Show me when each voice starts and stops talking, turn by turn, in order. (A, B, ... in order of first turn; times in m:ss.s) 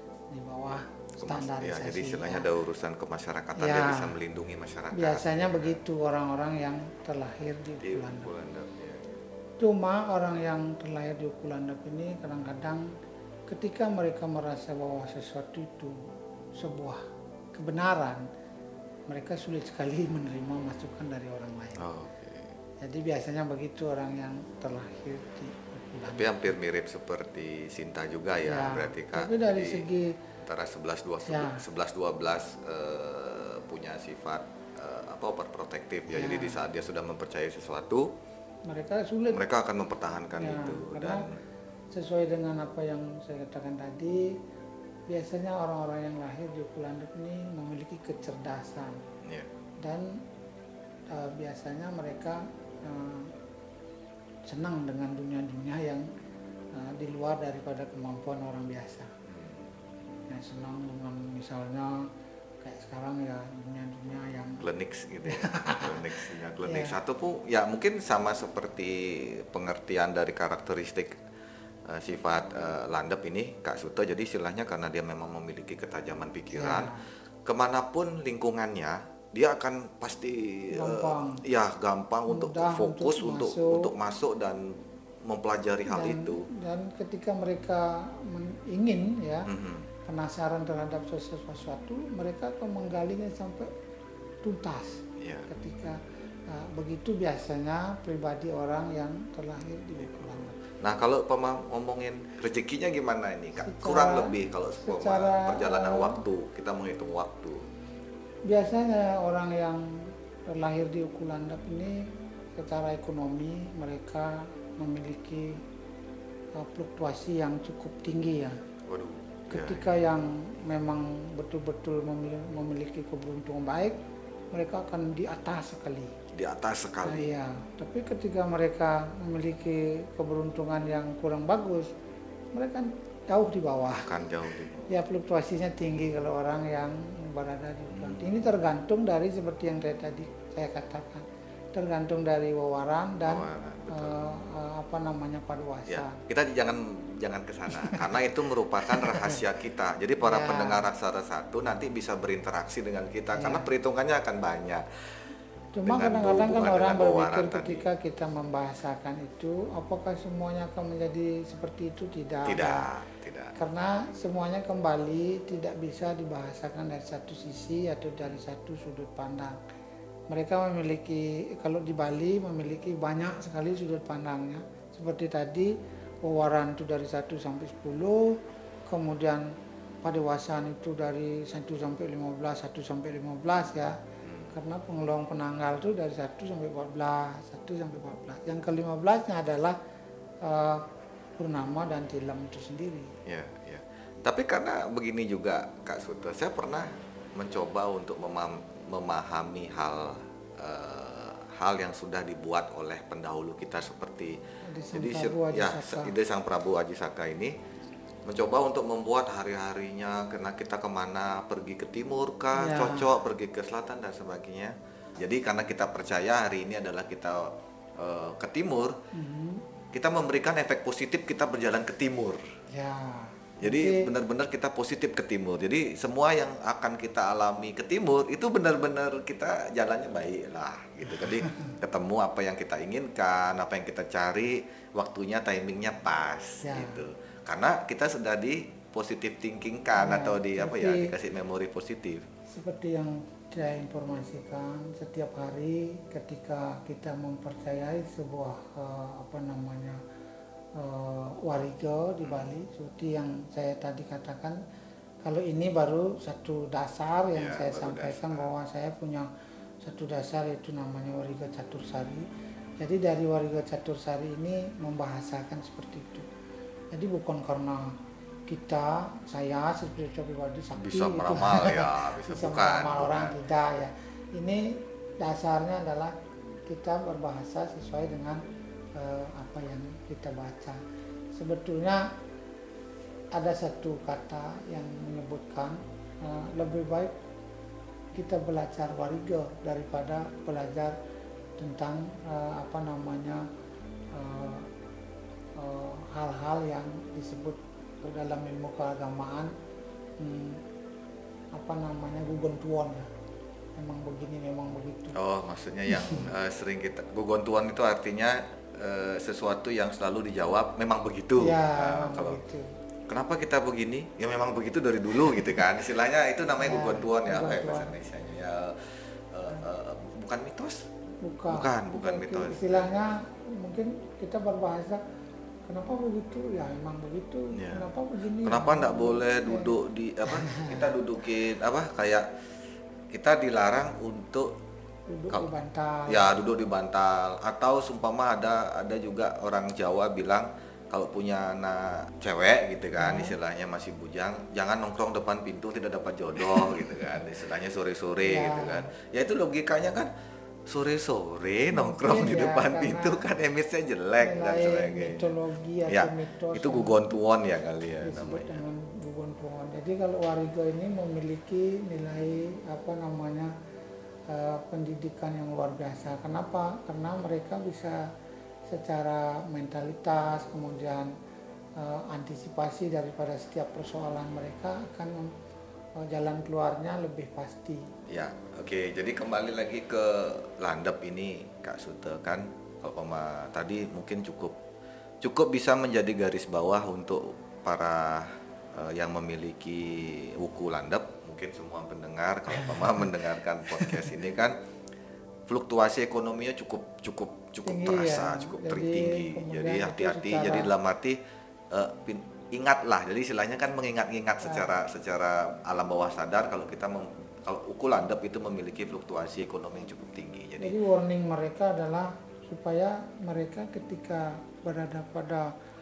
0:00.3-0:02.5 A
0:01.2-0:05.8 B
0:03.6-0:04.1 A
0:04.9-0:08.3 A
0:07.8-0:09.2 B
0:09.6-0:12.9 A
0:13.5-0:16.0 A
0:16.6-0:17.0 A
0:17.5-0:18.2 A
0:19.1-0:21.8 A
0:21.8-0:22.6 B
0:22.8-0:26.5 A
0:26.1-0:29.9 B
0:28.4-0:30.1 A
0:30.4-0:38.1 B
0:31.3-0:31.6 A
0:36.1-0:36.6 A
0:38.7-0:39.4 A
0:39.3-0:41.4 B
0:40.4-0:41.3 A
0:41.9-0:44.3 A
0:45.1-0:49.0 A
0:49.2-0:49.5 B
0:49.8-0:50.1 A
0:51.1-0:53.3 A
0:54.5-0:56.0 A
0:56.7-0:59.1 A
0:59.3-0:59.7 B
1:00.3-1:02.1 A
1:02.6-1:04.7 A
1:04.6-1:11.2 B
1:05.3-1:07.0 A
1:11.9-1:17.0 B
1:16.5-1:17.1 A
1:17.5-1:26.5 B
1:20.7-1:21.4 A
1:22.3-1:23.9 A
1:25.9-1:29.5 A
1:29.5-1:29.9 B
1:30.0-1:33.7 A
1:34.4-1:40.6 A
1:35.2-1:35.5 B
1:40.0-1:47.7 B
1:43.6-1:46.2 A
1:48.5-1:52.0 A
1:52.6-1:55.6 A
1:56.6-1:58.6 A
1:58.9-1:59.8 B
1:59.5-2:04.0 A
2:04.5-2:06.1 A
2:06.3-2:07.3 B
2:07.0-2:11.9 A
2:12.5-2:14.2 A
2:13.9-2:14.9 B
2:14.9-2:26.2 A
2:17.9-2:18.5 B
2:23.3-2:24.3 B
2:25.9-2:34.8 B
2:27.8-2:28.3 A
2:28.8-2:29.4 A
2:30.2-2:30.9 A
2:33.3-2:33.7 A
2:35.8-2:42.9 A
2:35.8-2:37.9 B
2:42.4-2:43.6 B
2:43.6-2:49.6 A
2:50.3-2:59.5 A
3:00.0-3:04.0 A
3:04.2-3:04.6 B
3:04.5-3:09.8 A
3:10.4-3:13.1 A
3:13.3-3:24.4 B
3:24.7-3:26.1 A
3:24.9-3:27.6 B
3:28.2-3:38.9 B
3:32.5-3:33.2 A
3:39.1-3:39.6 A
3:39.9-3:42.4 B
3:42.7-3:44.1 A
3:43.6-4:02.2 B
3:56.6-3:57.0 A
4:00.0-4:01.1 A
4:02.5-4:10.0 A
4:10.8-4:14.6 A
4:12.2-4:12.6 B
4:15.2-4:19.3 A
4:17.4-4:18.5 B
4:19.8-4:22.3 A
4:22.8-4:26.3 A
4:26.9-4:28.0 A
4:28.5-4:38.4 A
4:30.8-4:33.4 B
4:39.0-4:40.8 A
4:41.3-4:42.1 A
4:43.3-4:47.2 A
4:48.1-4:51.0 A
4:51.6-4:53.4 A
4:54.1-4:54.7 A
4:55.6-4:59.5 A
5:00.2-5:00.6 A
5:01.5-5:03.1 A
5:03.8-5:05.2 A
5:05.1-5:12.4 B
5:05.9-5:06.3 A
5:11.4-5:12.7 A
5:13.1-5:20.9 B
5:16.6-5:17.9 A
5:21.2-5:25.0 A
5:21.5-5:22.9 B
5:25.7-5:29.8 A
5:27.5-5:27.9 B
5:28.4-5:32.4 B
5:30.3-5:30.9 A
5:33.1-5:34.5 B
5:35.1-5:36.3 A
5:36.1-5:50.1 B
5:43.0-5:43.4 A
5:46.6-5:47.1 A
5:48.2-5:48.9 A
5:50.7-5:55.3 B
5:51.7-5:53.3 A
5:54.2-5:57.0 A
5:55.9-5:58.6 B
5:58.0-6:03.5 A
6:04.3-6:08.0 A
6:08.7-6:11.1 A
6:11.8-6:15.3 A
6:16.0-6:17.9 A
6:18.1-6:24.6 B
6:25.2-6:34.6 B
6:32.6-6:33.1 A
6:33.7-6:34.1 A
6:35.5-6:41.2 B
6:37.6-6:40.7 A
6:41.7-6:50.8 B
6:44.4-6:44.8 A
6:50.6-6:55.5 A